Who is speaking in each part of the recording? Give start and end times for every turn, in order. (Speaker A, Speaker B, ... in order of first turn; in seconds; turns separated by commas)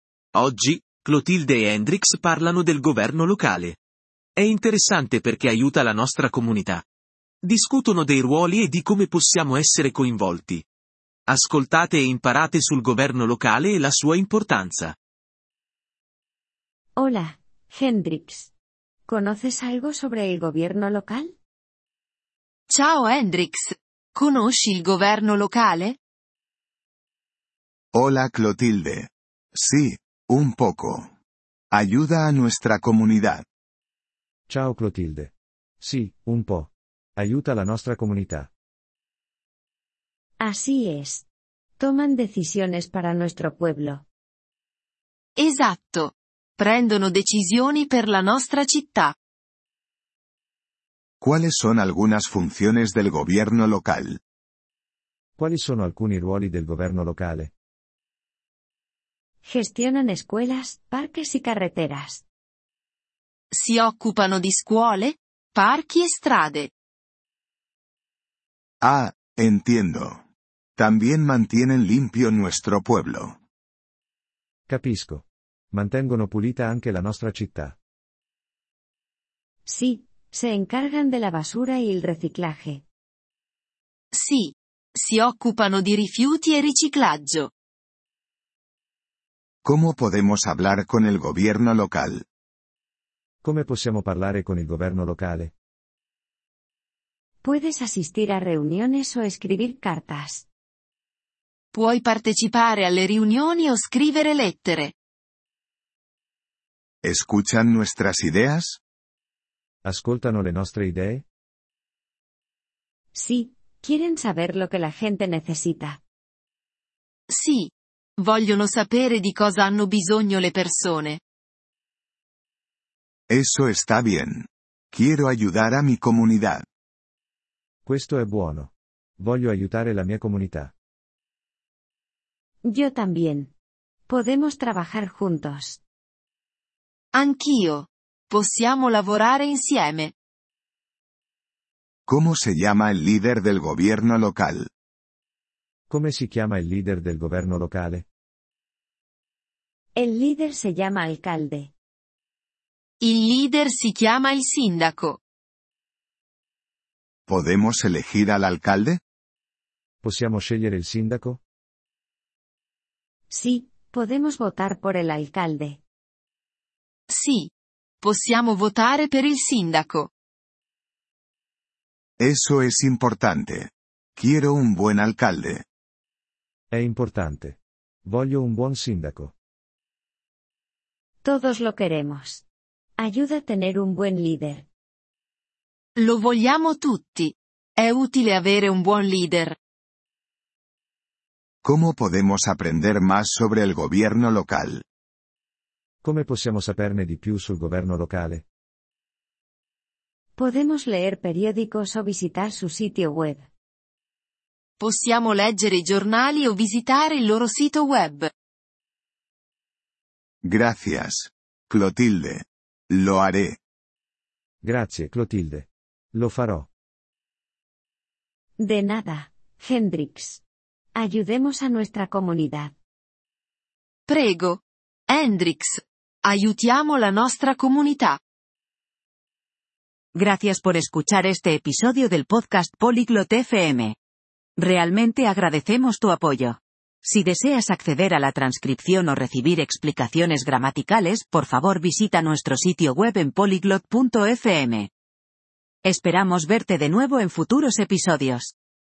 Speaker A: 0.3-3.8, Speaker A: 4.4-6.8, Speaker A: 7.4-10.7, Speaker A: 11.3-15.0, Speaker B: 17.0-18.5, Speaker B: 19.1-21.3, Speaker C: 22.7-26.0, Speaker D: 27.9-31.1, Speaker D: 31.7-33.4, Speaker E: 34.5-38.5, Speaker B: 40.4-41.3, Speaker B: 41.8-44.0, Speaker C: 45.4-49.1, Speaker D: 51.2-54.2, Speaker E: 55.4-57.5, Speaker B: 59.4-62.2, Speaker C: 63.5-66.7, Speaker D: 68.8-70.2, Speaker D: 70.8-73.4, Speaker E: 74.7-77.8, Speaker B: 79.7-82.8, Speaker C: 84.1-87.5, Speaker D: 89.7-92.2, Speaker E: 93.4-95.5, Speaker B: 97.4-100.5, Speaker C: 101.7-104.9, Speaker D: 107.0-108.8, Speaker E: 109.8-111.2, Speaker B: 113.1-116.0, Speaker C: 117.3-121.2, Speaker D: 123.3-126.7, Speaker E: 127.9-130.7, Speaker B: 132.7-133.5, Speaker B: 134.1-135.8, Speaker C: 137.1-140.1, Speaker D: 142.1-144.7, Speaker E: 145.9-148.1, Speaker B: 150.0-151.7, Speaker C: 153.0-155.2, Speaker D: 157.3-159.0, Speaker E: 160.0-161.4, Speaker B: 163.3-165.8, Speaker C: 167.1-167.5, Speaker C: 168.0-170.1, Speaker D: 172.2-175.6, Speaker E: 176.7-179.3, Speaker B: 181.2-182.4, Speaker B: 183.0-184.7, Speaker C: 186.0-189.6, Speaker D: 191.6-194.8, Speaker E: 196.0-198.4, Speaker B: 200.4-203.5, Speaker C: 204.8-208.3, Speaker D: 210.4-213.6, Speaker E: 214.6-216.7, Speaker B: 218.6-220.4, Speaker B: 220.9-222.8, Speaker C: 224.1-228.2, Speaker F: 230.2-233.9, Speaker F: 234.6-244.9, Speaker F: 245.8-248.5